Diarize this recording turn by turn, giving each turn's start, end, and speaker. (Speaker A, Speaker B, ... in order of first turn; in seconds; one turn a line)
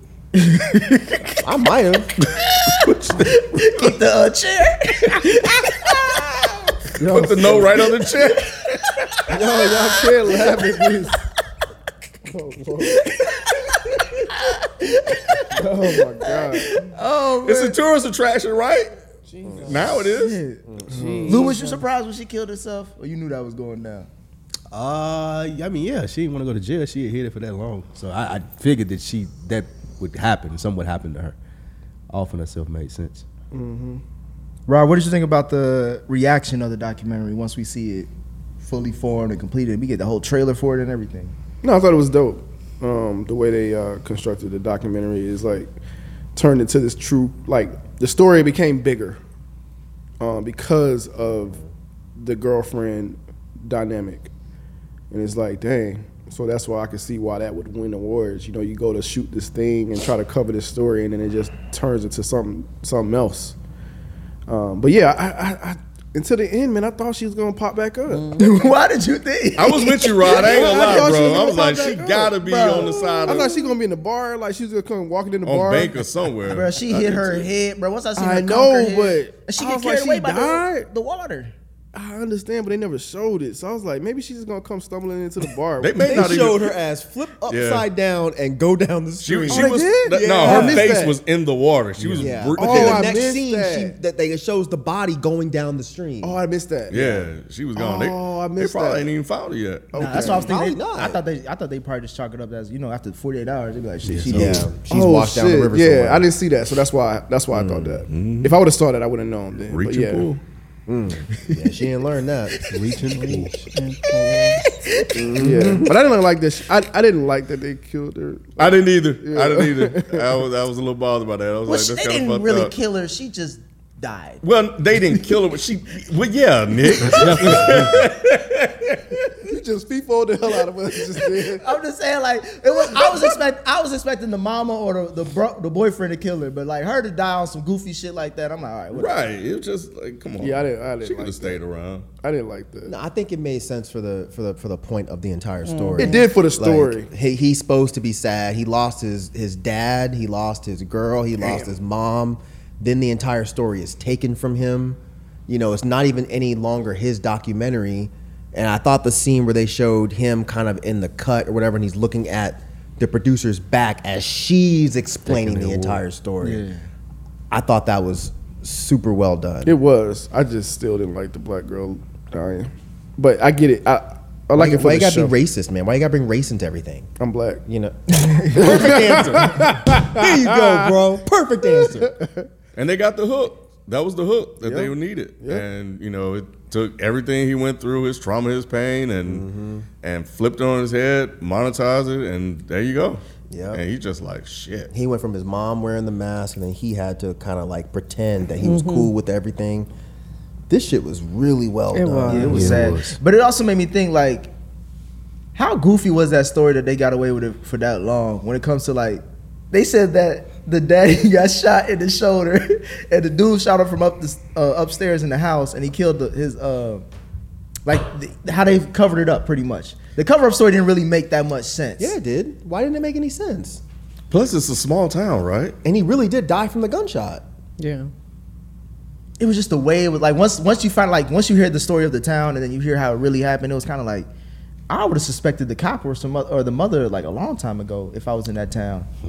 Speaker A: 0.3-1.4
Speaker B: 1.4-2.2
Speaker A: 2.2-6.9
Speaker C: 2.7-3.4
Speaker D: 7.0-8.0
Speaker C: 7.0-8.6
Speaker A: 7.8-10.7
Speaker D: 9.3-11.2
Speaker D: 12.2-13.1
Speaker A: 12.8-17.8
Speaker D: 15.6-16.8
Speaker C: 17.4-18.9
Speaker E: 19.3-20.0
Speaker C: 19.6-20.4
Speaker A: 19.9-24.1
Speaker B: 20.7-21.1
Speaker D: 20.9-21.6
Speaker E: 20.9-21.8
Speaker F: 24.7-31.4
Speaker F: 32.1-33.2
Speaker D: 33.5-34.0
Speaker A: 34.7-38.1
Speaker A: 38.6-41.3
Speaker D: 41.6-45.7
Speaker D: 46.3-49.2
Speaker D: 50.2-51.6
Speaker D: 52.1-54.3
Speaker D: 55.1-63.5
Speaker D: 64.5-68.4
Speaker E: 68.1-68.5
Speaker A: 68.4-71.1
Speaker C: 69.5-73.6
Speaker D: 70.2-76.1
Speaker A: 72.4-73.4
Speaker C: 75.4-77.5
Speaker A: 76.4-81.5
Speaker D: 78.2-80.9
Speaker D: 81.9-86.5
Speaker C: 85.8-86.8
Speaker B: 86.0-90.9
Speaker C: 87.5-87.9
Speaker C: 89.2-93.1
Speaker D: 89.5-91.2
Speaker F: 92.0-92.3
Speaker B: 92.2-96.4
Speaker D: 92.6-93.9
Speaker D: 96.2-97.1
Speaker C: 96.9-100.4
Speaker B: 96.9-97.2
Speaker D: 97.8-99.1
Speaker D: 99.9-100.6
Speaker A: 100.0-104.7
Speaker B: 100.5-101.2
Speaker F: 104.0-104.7
Speaker B: 104.3-106.3
Speaker D: 104.9-110.4
Speaker B: 107.5-108.0
Speaker C: 108.1-108.6
Speaker C: 109.7-110.4
Speaker B: 110.9-112.6
Speaker F: 112.7-113.6
Speaker E: 113.1-114.6
Speaker A: 114.3-115.4
Speaker D: 115.2-120.4
Speaker B: 115.2-115.9
Speaker C: 118.6-122.7
Speaker A: 121.7-124.4
Speaker C: 124.4-129.4
Speaker A: 125.0-125.3
Speaker F: 127.0-128.0
Speaker A: 127.2-127.7
Speaker D: 129.4-131.7
Speaker A: 131.6-139.2
Speaker C: 132.9-133.3
Speaker C: 138.9-142.1
Speaker D: 140.4-141.6
Speaker D: 142.2-142.9
Speaker B: 142.8-166.6
Speaker E: 145.6-146.3
Speaker D: 145.9-147.1
Speaker D: 151.4-151.7
Speaker F: 165.2-166.0
Speaker A: 166.4-166.8
Speaker B: 167.5-169.8
Speaker D: 169.6-175.3
Speaker B: 174.5-177.1
Speaker D: 177.2-177.6
Speaker B: 177.6-182.1
Speaker A: 178.2-178.9
Speaker D: 178.6-181.0
Speaker D: 181.7-182.5
Speaker C: 182.7-189.4
Speaker D: 184.6-185.6
Speaker B: 189.2-189.8
Speaker C: 190.0-194.9
Speaker B: 193.5-193.8
Speaker B: 194.9-199.9
Speaker E: 198.6-199.1
Speaker B: 200.7-202.9
Speaker E: 201.9-202.7
Speaker A: 202.3-204.5
Speaker F: 202.5-203.2
Speaker A: 205.5-217.0
Speaker A: 217.8-222.2
Speaker B: 222.0-223.8
Speaker C: 224.3-225.7
Speaker B: 225.8-227.4
Speaker E: 227.8-228.1
Speaker A: 229.4-234.3
Speaker A: 234.9-239.1